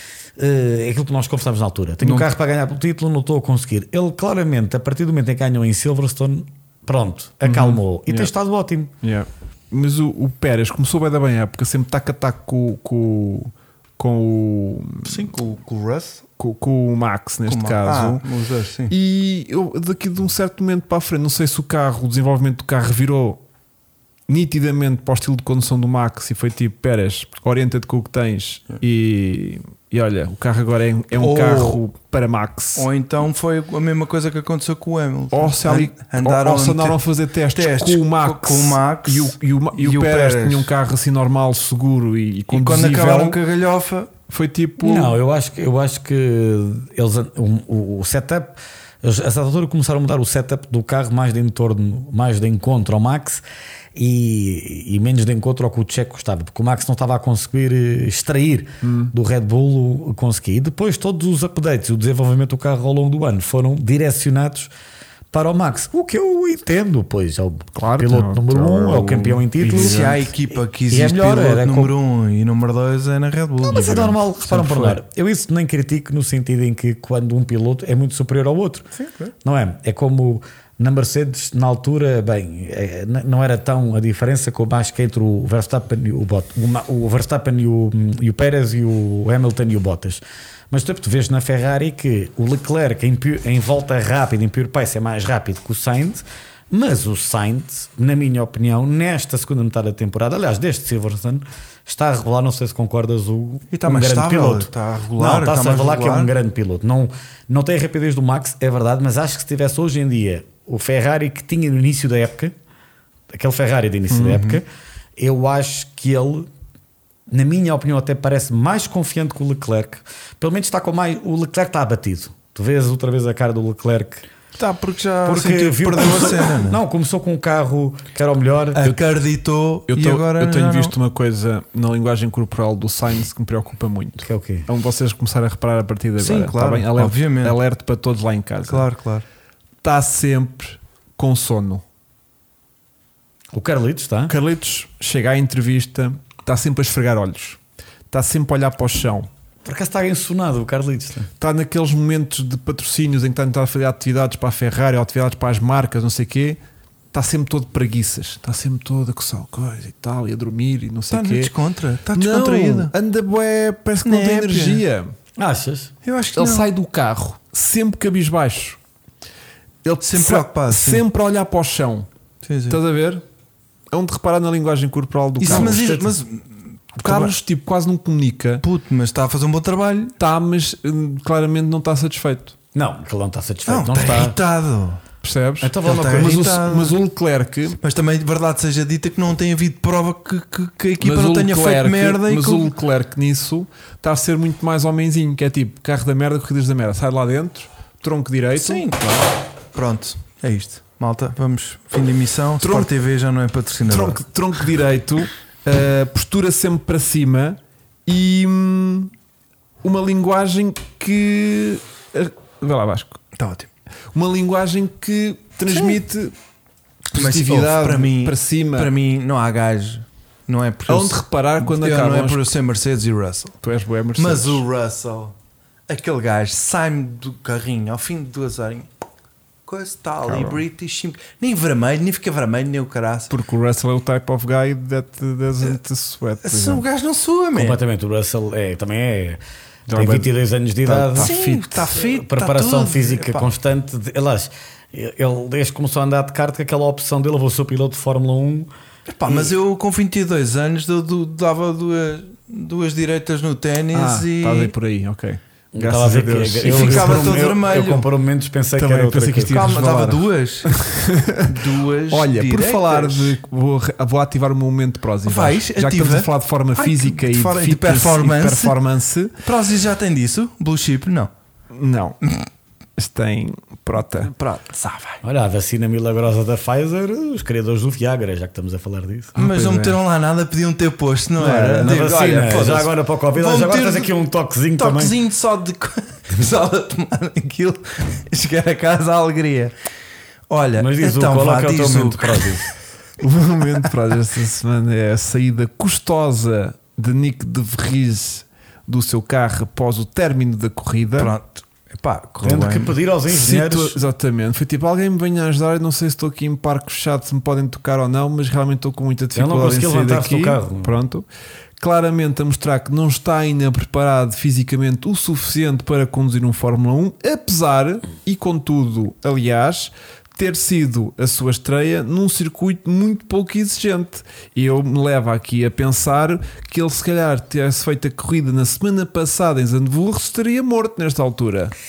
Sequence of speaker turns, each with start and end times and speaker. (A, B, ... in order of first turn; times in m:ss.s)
0:00.4-0:08.9 A
0:02.0-0:02.3 B
0:07.4-0:08.3 B
0:09.0-0:15.3 B
0:15.0-0:16.2 C
0:16.4-0:18.2 B
0:17.5-0:18.9 C
0:18.9-0:23.4 B
0:24.3-0:32.9 B
0:31.2-0:31.8 C
0:32.8-0:37.0 C
0:35.3-0:43.4 B
0:37.5-0:40.7 C
0:42.5-0:44.1 C
0:44.3-0:45.2 B
0:44.8-0:53.4 A
0:53.9-1:04.7 A
0:58.8-0:59.1 B
1:05.3-1:10.1 A
1:07.7-1:10.1 B
1:09.6-1:15.0 C
1:10.9-1:11.9 A
1:13.6-1:18.9 A
1:18.9-1:19.3 C
1:19.4-1:52.5 A
1:43.7-1:46.3 C
1:53.3-1:54.6 A
1:54.1-1:54.4 B
1:54.2-1:54.6 C
1:55.2-1:56.5 A
1:57.3-2:04.3 A
2:04.6-2:06.8 C
2:05.2-2:08.9 A
2:08.7-2:11.0 C
2:09.9-2:18.9 B
2:14.2-2:14.7 A
2:16.2-2:17.6 C
2:18.6-2:19.2 C
2:19.8-2:21.8 B
2:23.5-2:24.3 A
2:24.3-2:27.6 B
2:28.1-2:29.3 B
2:29.6-2:31.3 A
2:31.4-2:36.6 B
2:37.1-2:41.5 B
2:41.1-2:42.9 C
2:42.1-2:45.1 B
2:44.0-2:44.8 C
2:45.4-2:45.9 A
2:46.0-2:46.7 C
2:46.4-2:48.8 B
2:49.8-2:52.1 B
2:50.0-2:51.0 C
2:52.4-2:52.8 C
2:52.7-2:53.2 B
2:53.9-2:56.0 B
2:55.4-2:57.3 C
2:55.5-2:56.0 A
2:57.0-2:58.6 B
2:58.6-3:00.2 C
3:00.2-3:02.5 B
3:02.7-3:04.4 A
3:03.6-3:05.0 C
3:05.2-3:07.8 B
3:05.6-3:06.6 A
3:05.8-3:07.0 C
3:07.8-3:12.7 C
3:11.0-3:19.0 B
3:18.6-3:24.6 C
3:22.6-3:22.9 B
3:23.9-3:29.1 B
3:29.8-3:33.2 B
3:33.4-3:33.7 C
3:34.1-3:36.3 B
3:35.7-3:36.0 C
3:37.1-3:38.9 B
3:37.1-3:43.6 C
3:40.9-3:42.5 B
3:43.6-3:44.6 B
3:44.2-3:45.3 C
3:45.9-3:48.9 C
3:49.6-3:53.3 C
3:50.2-3:50.6 B
3:53.3-3:56.8 B
3:56.4-3:57.8 C
3:57.5-3:59.4 A
3:59.9-4:00.3 B
3:59.9-4:01.4 A
4:00.8-4:01.9 B
4:01.2-4:03.5 C
4:01.9-4:08.7 A
4:09.1-4:14.7 C
4:13.9-4:17.4 B
4:15.7-4:19.8 A
4:16.6-4:18.1 C
4:18.8-4:29.4 B
4:19.4-4:20.7 C
4:21.4-4:23.4 C
4:25.2-4:28.8 C
4:29.4-4:31.3 C
4:31.7-4:32.2 B
4:33.0-4:34.3 B
4:34.2-4:35.2 C
4:35.2-4:39.3 A
4:39.4-4:40.0 B
4:39.4-4:44.1 C
4:41.4-4:42.9 B
4:41.6-4:45.1 A
4:44.8-4:49.7 C
4:50.5-4:52.6 C
4:50.8-4:52.7 A
4:53.2-5:01.3 B
5:01.2-5:03.0 C
5:02.4-5:04.0 A
5:03.3-5:11.2 B
5:09.3-5:10.9 A
5:11.8-5:31.7 B